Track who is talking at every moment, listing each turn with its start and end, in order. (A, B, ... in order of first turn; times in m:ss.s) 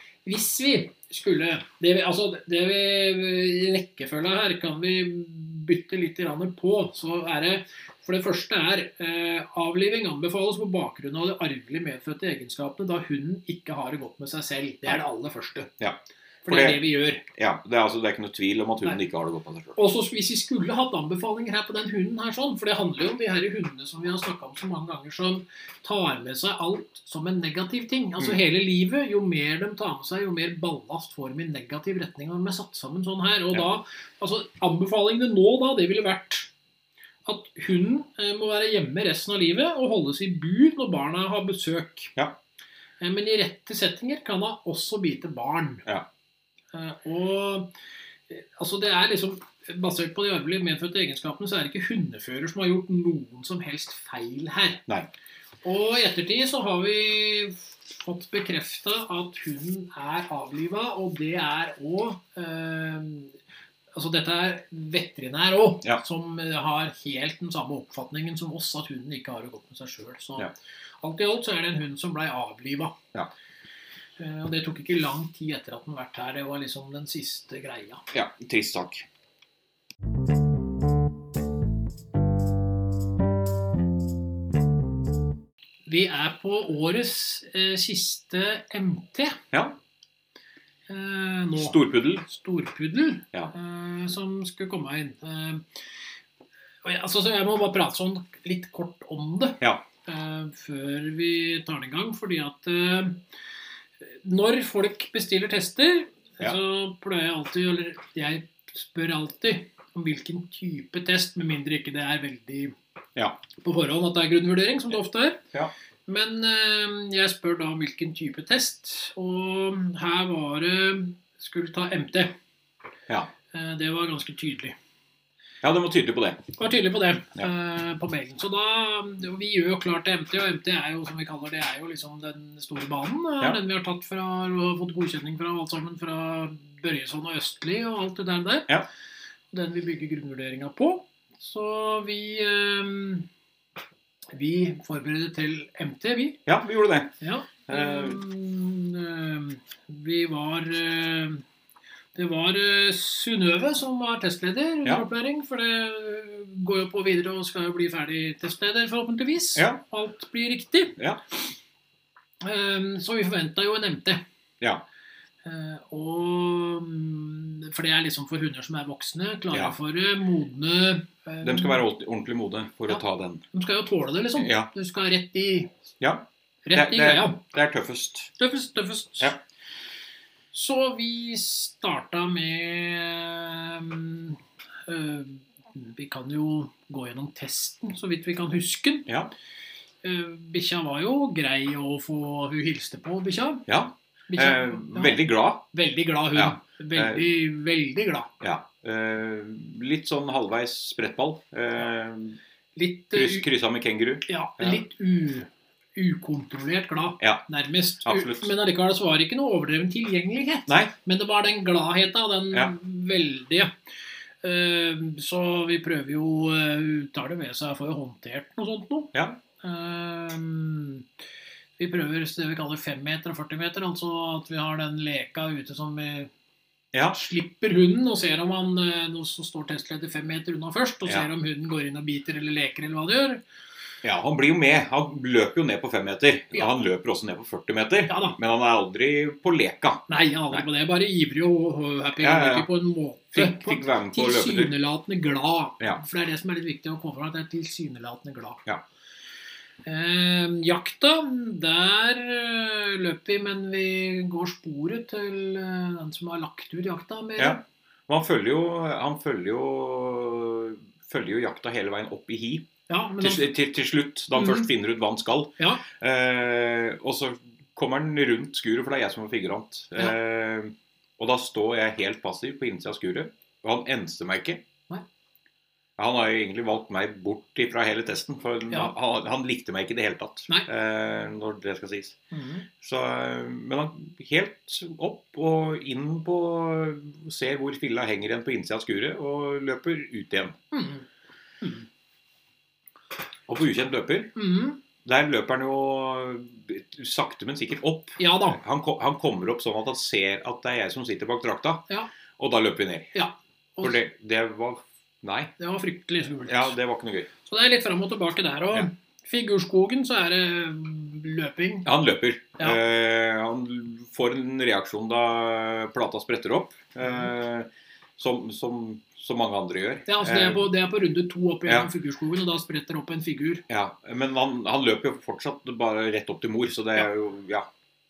0:00.2-0:15.7 A
0:15.8-0:19.8 B
0:16.4-0:17.2 A
0:19.8-0:36.5 A
0:37.2-0:42.1 A
0:43.0-0:45.8 A
0:46.7-0:47.7 A
0:48.3-0:54.8 A
0:55.6-1:03.4 A
1:03.9-1:13.0 A
1:14.2-1:18.0 A
1:18.1-1:19.0 B
1:25.9-1:29.4 A
1:29.5-1:29.8 B
1:30.9-1:35.6 A
1:31.6-1:32.2 B
1:36.8-1:43.2 A
1:44.0-1:52.8 A
1:53.6-1:55.4 A
1:56.1-2:02.3 A
2:03.5-2:04.8 A
2:05.6-2:06.4 B
2:06.6-2:18.7 A
2:19.5-2:23.3 A
2:24.3-2:26.4 A
2:26.5-2:27.2 B
2:27.2-2:31.4 A
2:27.7-2:28.2 B
2:32.2-2:41.0 A
2:39.6-2:39.8 B
2:42.4-2:44.2 A
2:45.4-2:51.8 A
2:51.4-2:53.4 B
2:53.5-2:55.8 A
2:54.4-2:54.7 B
2:56.0-2:58.3 B
2:56.6-2:57.4 A
2:58.4-2:59.4 A
3:00.5-3:09.1 A
3:09.1-3:09.3 B
3:10.0-3:13.7 A
3:13.7-3:15.6 B
3:14.3-3:18.3 A
3:16.4-3:17.2 B
3:18.4-3:22.4 B
3:22.8-3:23.5 A
3:23.1-3:24.8 B
3:24.3-3:33.7 A
3:28.0-3:28.5 B
3:30.7-3:30.9 B
3:34.4-3:41.1 A
3:39.1-3:39.4 B
3:41.8-3:46.3 A
3:47.1-3:53.4 A
3:54.0-4:00.6 B
3:58.1-3:58.4 A
4:00.1-4:08.6 A
4:02.2-4:02.7 B
4:03.3-4:04.7 B
4:09.8-4:17.6 A
4:17.4-4:22.7 B
4:22.9-4:23.5 A
4:23.2-4:34.6 B
4:24.4-4:24.7 A
4:36.0-4:42.2 B
4:42.3-4:42.7 A
4:42.8-4:50.6 B
4:50.7-4:51.0 A
4:51.6-4:51.9 A
4:53.5-4:54.3 B
4:54.4-4:54.8 A
4:55.0-5:01.8 B
4:58.2-4:58.6 A
5:02.4-5:03.1 B
5:03.1-5:04.0 A
5:03.8-5:05.5 B
5:05.6-5:06.8 A
5:06.5-5:07.3 B
5:07.4-5:11.9 A
5:11.8-5:20.7 B
5:20.1-5:23.6 A
5:23.7-5:27.7 B